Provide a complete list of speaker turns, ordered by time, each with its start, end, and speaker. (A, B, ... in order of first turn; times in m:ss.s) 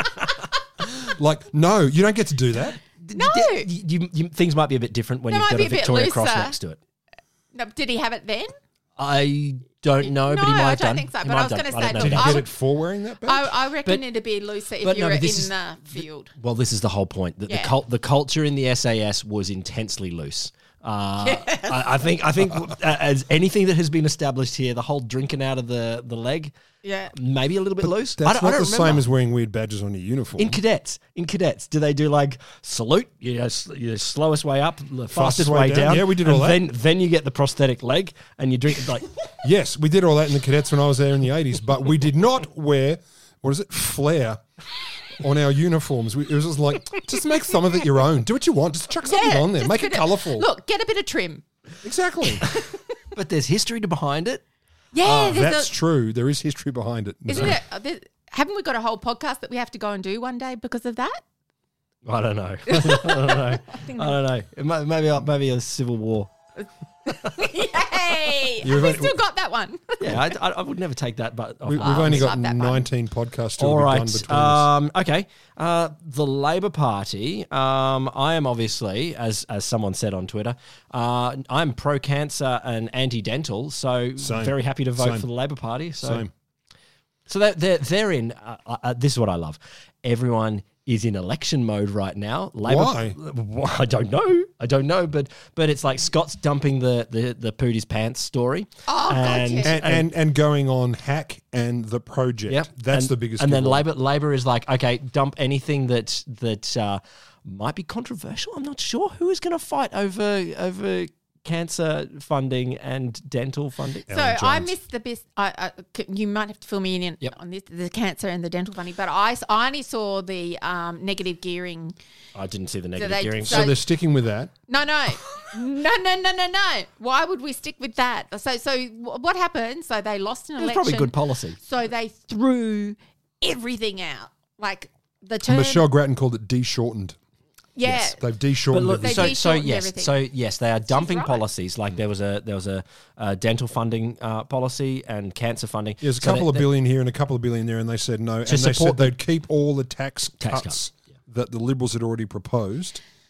0:00.8-0:02.8 A
0:03.0-0:06.8 B
0:03.1-0:03.7 C
0:05.3-0:06.6 C
0:07.5-0:08.5 C
0:09.0-0:12.4 B
0:10.0-0:12.5 C
0:11.9-0:13.5 A
0:13.2-0:16.3 C
0:14.8-0:26.5 B
0:21.2-0:22.0 C
0:26.8-0:27.1 C
0:27.1-0:29.0 B
0:27.8-0:30.6 A
0:30.4-0:39.2 B
0:35.1-0:36.6 A
0:39.4-0:44.4 A
0:45.2-0:50.4 A
0:49.0-0:51.4 C
0:51.8-0:52.4 A
0:53.1-0:54.4 B
0:54.9-0:55.7 C
0:55.0-0:57.6 A
0:57.3-1:01.2 C
1:02.0-1:06.3 B
1:02.7-1:04.2 C
1:07.2-1:10.2 C
1:08.6-1:09.2 A
1:10.0-1:12.3 B
1:11.6-1:14.7 A
1:11.8-1:12.8 C
1:13.6-1:26.2 B
1:24.2-1:25.3 A
1:26.0-1:26.3 A
1:27.3-1:40.1 B
1:32.6-1:33.2 A
1:38.9-1:39.7 C
1:39.6-1:43.8 A
1:42.5-1:54.0 B
1:54.1-1:54.7 A
1:54.1-2:02.0 C
2:02.3-2:03.7 B
2:03.0-2:03.8 C
2:03.4-2:04.5 A
2:04.7-2:15.8 C
2:10.6-2:11.6 B
2:15.4-2:17.2 A
2:17.8-2:18.2 C
2:17.8-2:19.4 A
2:18.7-2:26.7 B
2:19.0-2:20.1 C
2:20.8-2:21.4 C
2:26.0-2:33.0 A
2:28.4-2:29.1 B
2:30.4-2:30.8 B